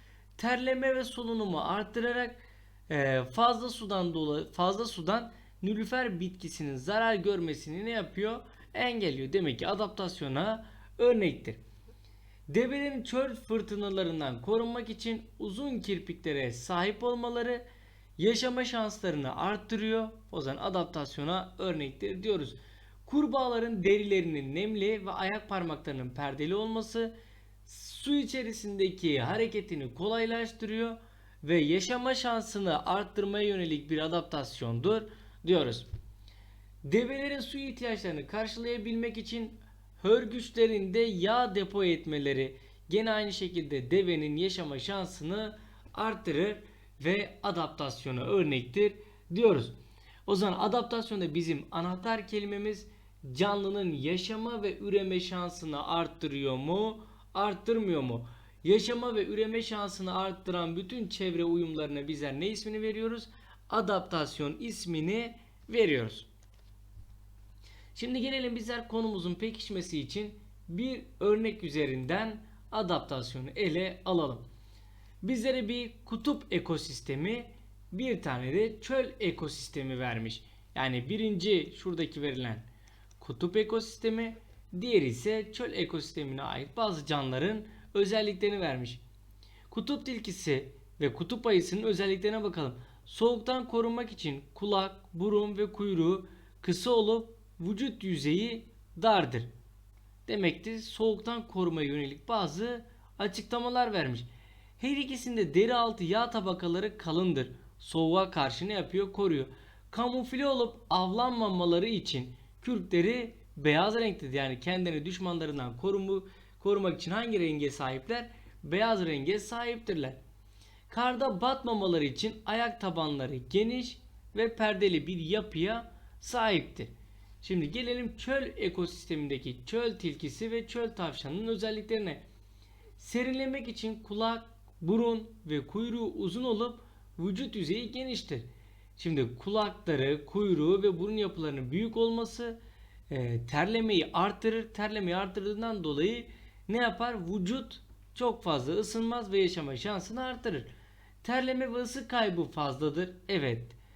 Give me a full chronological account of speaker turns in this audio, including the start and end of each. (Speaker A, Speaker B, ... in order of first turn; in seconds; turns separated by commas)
Speaker A: 0.4-11.6, Speaker A: 12.5-17.6, Speaker A: 18.2-27.1, Speaker A: 27.6-35.9, Speaker A: 36.8-66.3, Speaker A: 68.0-74.5, Speaker A: 75.2-82.7, Speaker A: 83.2-89.0, Speaker A: 89.7-99.5, Speaker A: 100.3-104.3, Speaker A: 104.8-120.2, Speaker A: 120.9-132.2, Speaker A: 133.0-150.7, Speaker A: 151.2-153.8